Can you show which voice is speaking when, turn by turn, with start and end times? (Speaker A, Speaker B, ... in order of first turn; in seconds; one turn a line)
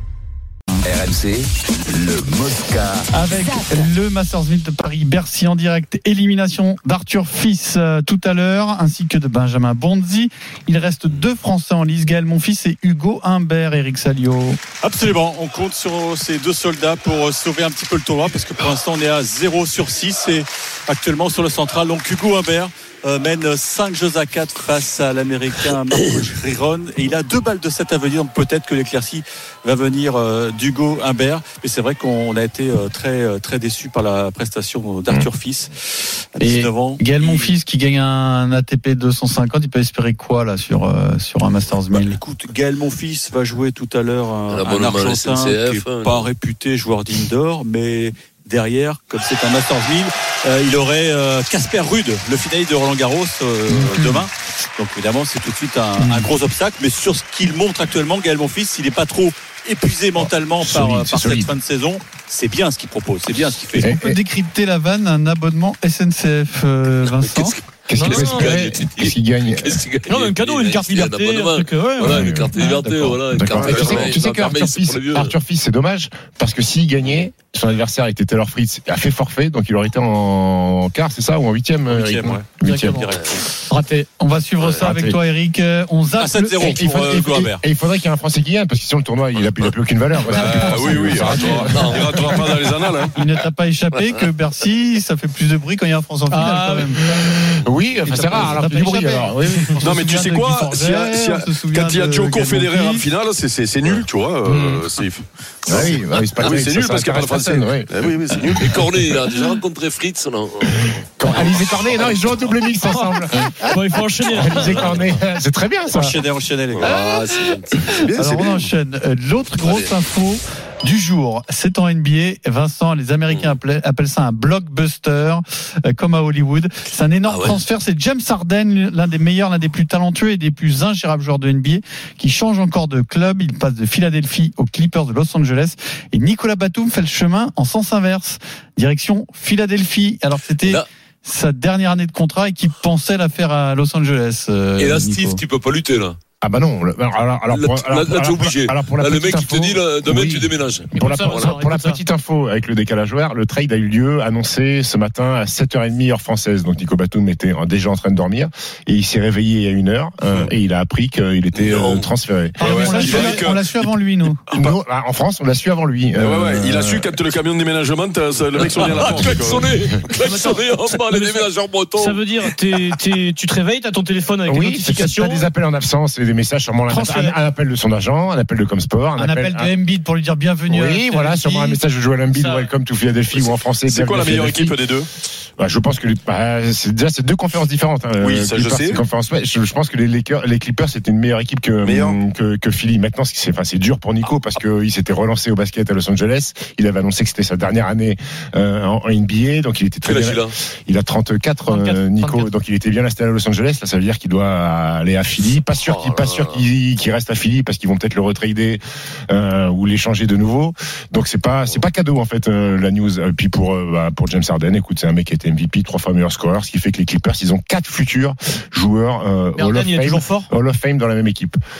Speaker A: 0.8-3.9
Speaker B: 3.1-14.6
Speaker C: 14.8-35.7
Speaker C: 36.3-37.5
Speaker B: 36.4-42.2
Speaker C: 42.0-63.9
Speaker D: 44.5-46.3
Speaker B: 53.9-54.2
Speaker E: 60.2-61.5
Speaker E: 63.7-64.2
Speaker B: 63.8-67.6
Speaker E: 67.9-69.8
Speaker F: 67.9-68.5
Speaker D: 68.0-75.3
Speaker F: 70.1-72.9
Speaker E: 72.0-83.1
Speaker C: 81.9-83.5
Speaker F: 83.7-84.1
Speaker B: 84.2-86.8
Speaker E: 84.8-85.2
Speaker C: 86.2-87.6
Speaker E: 86.6-92.1
Speaker B: 90.2-91.9
Speaker G: 90.3-93.1
Speaker D: 91.6-92.1
Speaker B: 93.1-97.0
Speaker F: 96.3-97.3
Speaker E: 97.1-99.7
Speaker B: 98.1-103.1
Speaker G: 99.8-109.1
Speaker E: 104.5-104.8
Speaker E: 105.7-107.9
Speaker D: 108.5-112.2
Speaker E: 110.7-116.1
Speaker F: 112.9-115.0
Speaker C: 115.9-117.7
Speaker B: 117.9-145.4
Speaker G: 117.9-118.7
Speaker D: 119.5-119.9
Speaker D: 127.3-127.6
Speaker D: 144.8-146.2
Speaker E: 146.4-163.2
Speaker D: 147.5-151.6
Speaker F: 150.9-152.0
Speaker D: 161.5-162.1
Speaker B: 162.6-164.4
Speaker G: 162.6-163.7
Speaker D: 163.1-163.4
Speaker E: 164.5-167.1
Speaker G: 166.2-169.7
Speaker D: 168.6-172.9
Speaker F: 170.2-175.5
Speaker E: 174.5-179.7
Speaker F: 176.9-177.4
Speaker B: 179.2-181.8
Speaker E: 180.7-184.8
Speaker F: 182.3-182.7
Speaker G: 183.3-185.1
Speaker E: 185.6-221.6
Speaker G: 188.2-189.0
Speaker G: 191.8-192.2
Speaker D: 200.0-200.5
Speaker F: 201.7-202.5
Speaker D: 205.8-206.6
Speaker F: 219.6-220.5